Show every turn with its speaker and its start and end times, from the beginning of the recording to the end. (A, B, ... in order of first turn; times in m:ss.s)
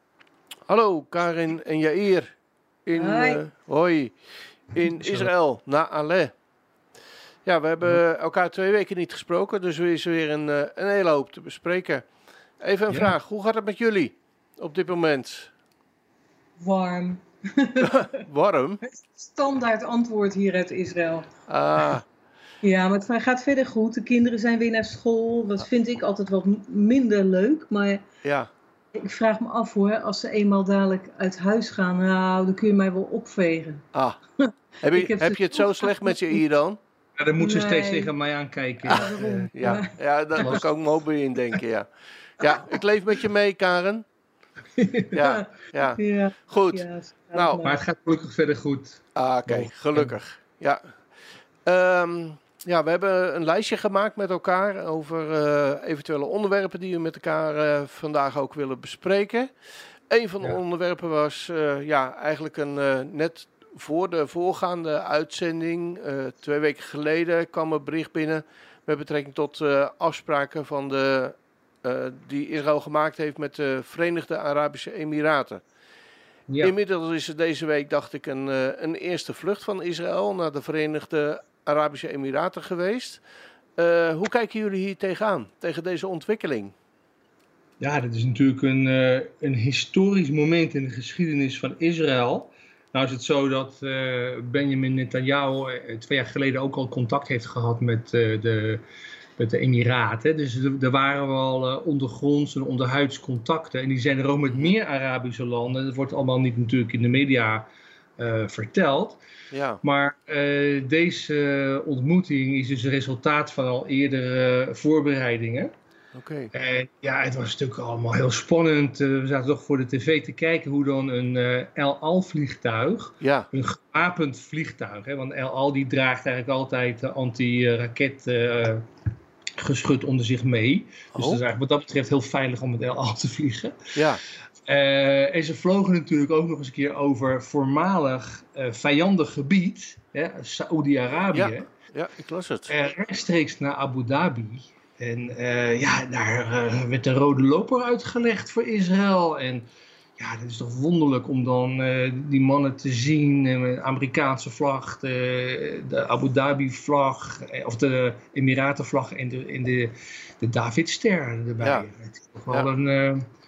0:00.7-0:02.3 A
0:02.9-0:04.2 A
0:02.9-0:03.4 B
0:04.7-0:06.3 A
0:05.0-0:05.3 C
0:07.4-0:12.0 A
0:12.6-0:15.5 A
0:16.6-0:18.2 B
0:17.8-0:18.8 A
0:18.9-0:21.3 B
0:21.5-0:22.0 A
0:22.6-0:28.0 B
0:28.2-0:28.5 A
0:28.9-0:33.8 B
0:33.9-0:34.2 A
0:34.4-0:36.2 B
0:34.8-0:36.8 A
0:37.2-0:39.7 C
0:37.4-0:38.1 B
0:38.8-0:40.0 B
0:38.9-0:41.9 A
0:40.4-0:40.6 C
0:42.4-0:44.0 A
0:44.8-0:45.3 C
0:45.1-0:47.6 A
0:45.2-0:47.8 B
0:47.6-0:50.2 C
0:49.2-0:50.9 A
0:51.7-0:59.5 A
1:00.1-1:15.6 A
1:16.5-1:16.7 C
1:16.6-1:23.2 A
1:23.8-1:26.7 A
1:27.8-1:38.8 C
1:39.4-1:47.7 C
1:48.2-1:49.2 C
1:49.5-1:49.8 A
1:49.8-1:55.7 C
1:56.2-1:56.5 A
1:56.5-2:08.9 C
2:03.2-2:03.5 A
2:09.6-2:14.0 C
2:11.2-2:11.4 A
2:14.0-2:14.2 A
2:14.6-2:21.7 C
2:21.3-2:22.7 A
2:22.7-2:43.3 C
2:41.6-2:41.9 A